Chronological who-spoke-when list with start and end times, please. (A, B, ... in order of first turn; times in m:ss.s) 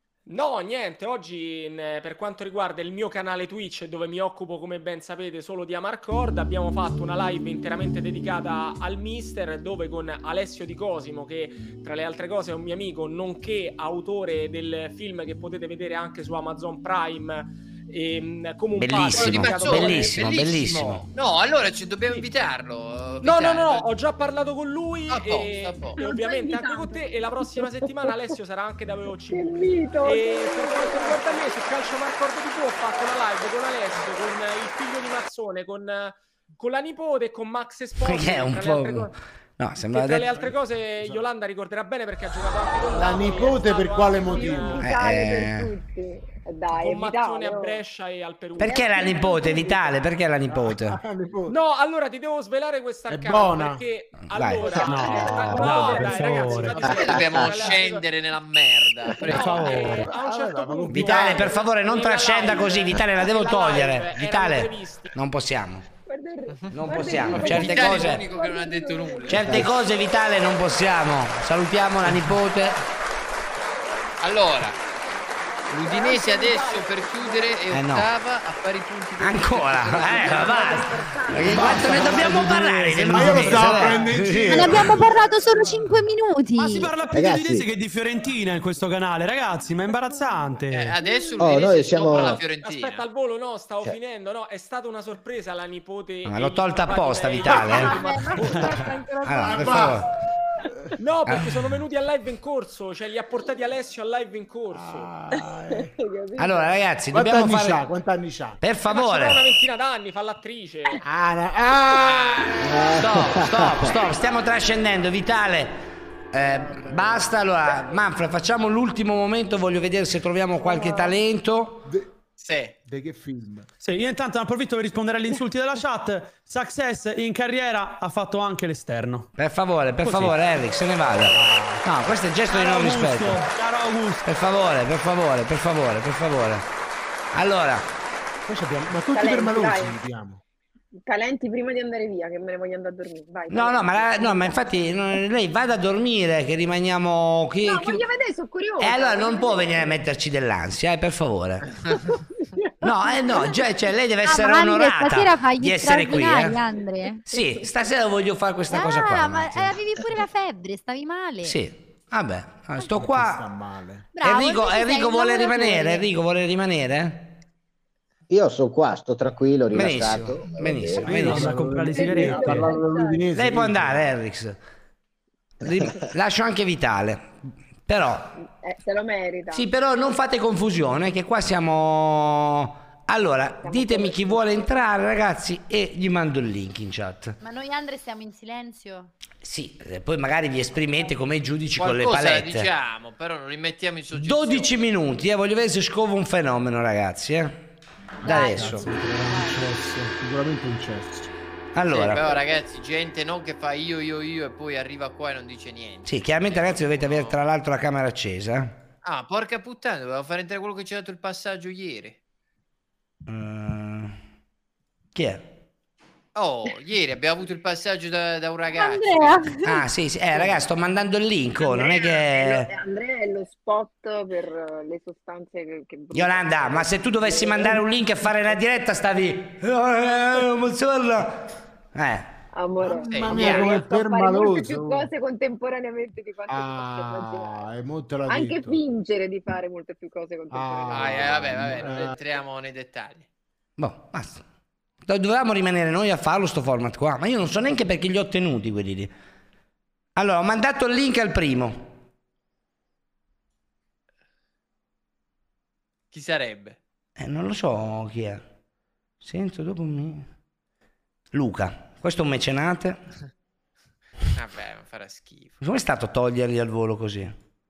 0:00.3-0:20.4 A
0:18.8-0:21.0 B
0:19.1-0:23.9 C
0:23.2-0:29.5 A
0:25.1-0:26.0 C
0:26.0-0:28.2 D
0:29.3-0:31.5 D
0:30.0-0:39.1 A
0:38.0-0:40.4 B
0:39.8-0:44.8 A
0:40.3-0:41.3 E
0:42.9-0:44.9 E
0:44.7-0:47.8 D
0:44.8-0:45.7 B
0:46.7-0:49.4 A
0:48.6-0:51.0 B
0:50.5-0:51.6 E
0:51.5-0:58.0 A
0:53.1-0:53.8 E
0:54.2-0:54.8 B
0:54.8-0:56.9 F
0:55.3-0:55.9 E
0:56.9-0:59.9 C
0:57.1-0:57.4 G
0:59.3-1:00.1 F
0:59.3-1:05.1 A
1:00.0-1:01.5 E
1:00.9-1:05.8 B
1:06.1-1:09.5 D
1:06.7-1:08.2 B
1:07.3-1:09.6 C
1:09.3-1:12.8 B
1:09.4-1:09.7 G
1:14.2-1:14.8 C
1:15.7-1:17.6 D
1:15.7-1:20.8 C
1:17.7-1:18.1 B
1:19.2-1:25.0 B
1:20.2-1:21.7 D
1:21.4-1:23.9 F
1:23.1-1:25.8 E
1:24.5-1:26.9 H
1:26.6-1:30.9 F
1:27.1-1:27.6 G
1:30.7-1:33.0 C
1:31.0-1:31.3 D
1:31.4-1:32.4 G
1:32.6-1:38.7 A
1:36.2-1:38.0 B
1:37.6-1:39.7 H
1:39.2-1:40.1 B
1:39.3-1:40.0 E
1:41.0-1:45.1 A
1:44.7-1:45.9 E
1:45.7-1:46.7 D
1:46.4-1:47.8 B
1:47.1-1:48.6 E
1:48.6-1:49.4 B
1:48.9-1:51.0 A
1:51.0-1:53.7 E
1:51.9-1:52.5 C
1:53.0-1:55.8 B
1:56.3-2:01.9 B
1:56.4-1:57.4 E
2:00.6-2:01.1 E
2:02.4-2:02.7 C
2:02.8-2:03.7 E
2:03.8-2:09.3 F
2:09.4-2:13.4 B
2:10.0-2:10.4 F
2:11.3-2:12.2 E
2:12.5-2:14.2 F
2:14.2-2:16.6 B
2:17.3-2:17.9 B
2:18.4-2:20.4 E
2:19.1-2:20.0 D
2:21.0-2:24.6 D
2:23.5-2:28.0 B
2:27.6-2:29.9 D
2:28.8-2:31.6 B
2:32.8-2:36.6 B
2:34.2-2:37.2 H
2:37.3-2:39.8 B
2:37.4-2:37.7 D
2:38.7-2:41.6 H
2:41.4-2:43.4 B
2:42.8-2:44.1 E
2:44.1-2:46.0 H
2:44.2-2:47.4 B
2:48.3-2:51.2 G
2:49.7-2:51.5 B
2:51.0-2:52.7 F
2:51.0-2:54.0 E
2:51.9-2:53.2 D
2:53.3-2:54.6 B
2:55.6-2:57.3 B
2:57.8-2:58.3 B
2:58.4-2:59.7 D
2:59.5-3:07.3 B
3:03.4-3:04.7 D
3:07.4-3:09.1 H
3:09.4-3:12.7 B
3:11.8-3:14.7 C
3:14.1-3:17.6 B
3:18.2-3:18.8 B
3:18.2-3:19.6 H
3:18.3-3:21.3 E
3:21.7-3:22.2 B
3:21.9-3:27.4 C
3:26.0-3:28.7 B
3:29.0-3:32.2 C
3:33.3-3:34.2 B
3:35.1-3:35.4 B
3:36.3-3:39.5 C
3:38.7-3:39.8 H
3:39.6-3:42.7 B
3:42.3-3:47.7 D
3:46.1-3:51.4 B
3:51.9-3:52.3 B
3:52.5-3:57.6 D
3:52.8-3:55.1 E
3:53.1-3:53.8 C
3:56.5-3:58.8 E
3:58.3-4:01.6 D
4:00.5-4:02.2 E
4:00.9-4:03.2 C
4:03.8-4:04.4 B
4:05.0-4:09.1 B
4:10.2-4:11.9 B
4:16.1-4:16.8 C
4:17.2-4:18.4 B
4:19.2-4:20.3 B
4:21.3-4:23.0 B
4:24.3-4:25.6 C
4:25.6-4:27.3 B